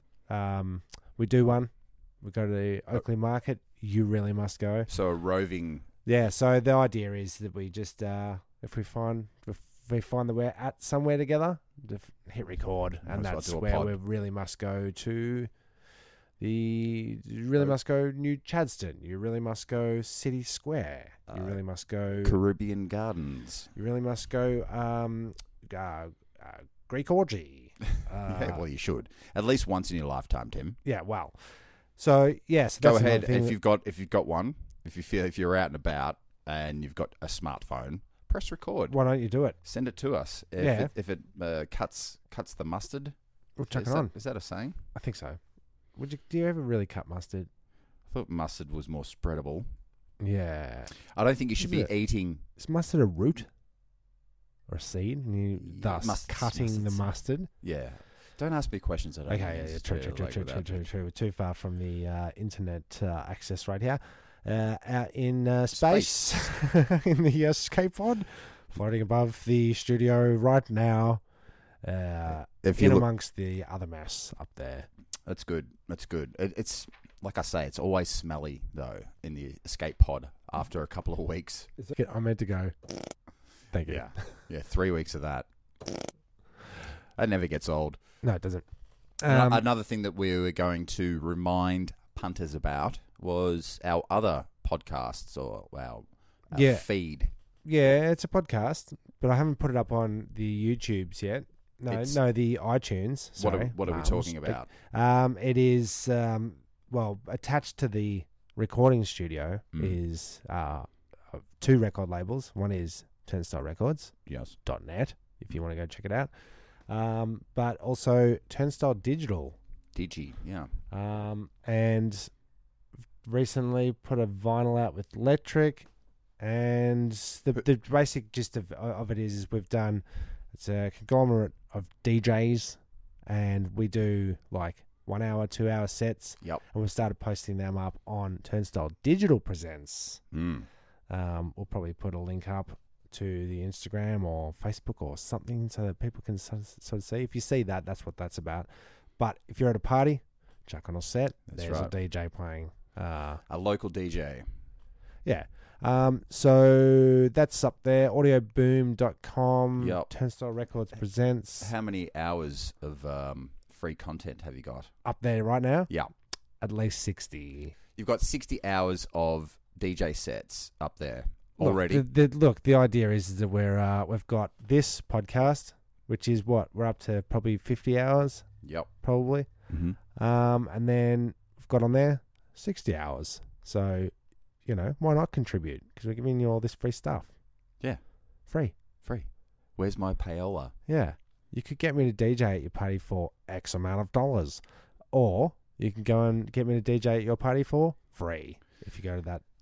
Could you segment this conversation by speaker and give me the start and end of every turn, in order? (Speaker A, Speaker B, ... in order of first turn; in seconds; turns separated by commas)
Speaker A: 0.3-4.9, Speaker B: 4.9-5.8, Speaker A: 6.0-15.5, Speaker B: 13.0-13.9, Speaker A: 16.4-22.4, Speaker B: 21.3-21.6, Speaker B: 22.2-23.7, Speaker A: 23.7-28.6, Speaker B: 28.2-30.8, Speaker A: 30.8-31.4, Speaker A: 32.0-33.6, Speaker B: 32.8-39.0, Speaker A: 38.9-39.6, Speaker B: 39.6-43.1, Speaker A: 40.6-40.9, Speaker A: 43.6-44.1, Speaker B: 43.7-44.8, Speaker A: 44.9-45.4, Speaker A: 46.0-47.5, Speaker B: 48.1-49.7, Speaker A: 50.2-50.9, Speaker B: 50.9-52.4, Speaker A: 51.6-51.9, Speaker A: 52.6-53.5, Speaker A: 54.7-57.5, Speaker B: 55.6-57.1, Speaker B: 57.6-60.9, Speaker A: 59.3-71.2, Speaker B: 65.7-66.6, Speaker A: 71.8-74.9, Speaker B: 72.5-73.1, Speaker B: 75.2-81.7, Speaker A: 81.8-82.7, Speaker A: 83.7-84.4, Speaker B: 83.8-85.5, Speaker B: 87.2-88.0, Speaker A: 88.2-88.7, Speaker A: 89.2-89.6, Speaker B: 89.3-97.3, Speaker A: 96.5-96.8, Speaker A: 97.6-114.1, Speaker B: 101.9-102.2, Speaker B: 103.4-104.7, Speaker B: 109.7-110.0, Speaker B: 114.3-114.6, Speaker A: 114.6-116.3, Speaker A: 116.9-119.6, Speaker B: 119.9-120.7, Speaker A: 120.9-122.3, Speaker A: 123.2-125.9, Speaker A: 126.4-140.2, Speaker B: 140.3-140.7, Speaker A: 141.1-153.4, Speaker B: 151.5-151.9, Speaker B: 153.5-154.5, Speaker A: 155.2-161.7, Speaker B: 159.8-160.1, Speaker B: 161.6-164.9, Speaker A: 165.0-165.9, Speaker A: 166.6-167.7, Speaker B: 167.9-172.1, Speaker A: 171.6-178.5, Speaker B: 178.6-178.9, Speaker A: 179.0-179.5, Speaker B: 179.7-180.0, Speaker A: 180.1-184.1, Speaker A: 184.7-187.3, Speaker A: 188.5-188.7, Speaker B: 189.0-190.7, Speaker A: 190.9-194.6, Speaker A: 195.1-199.4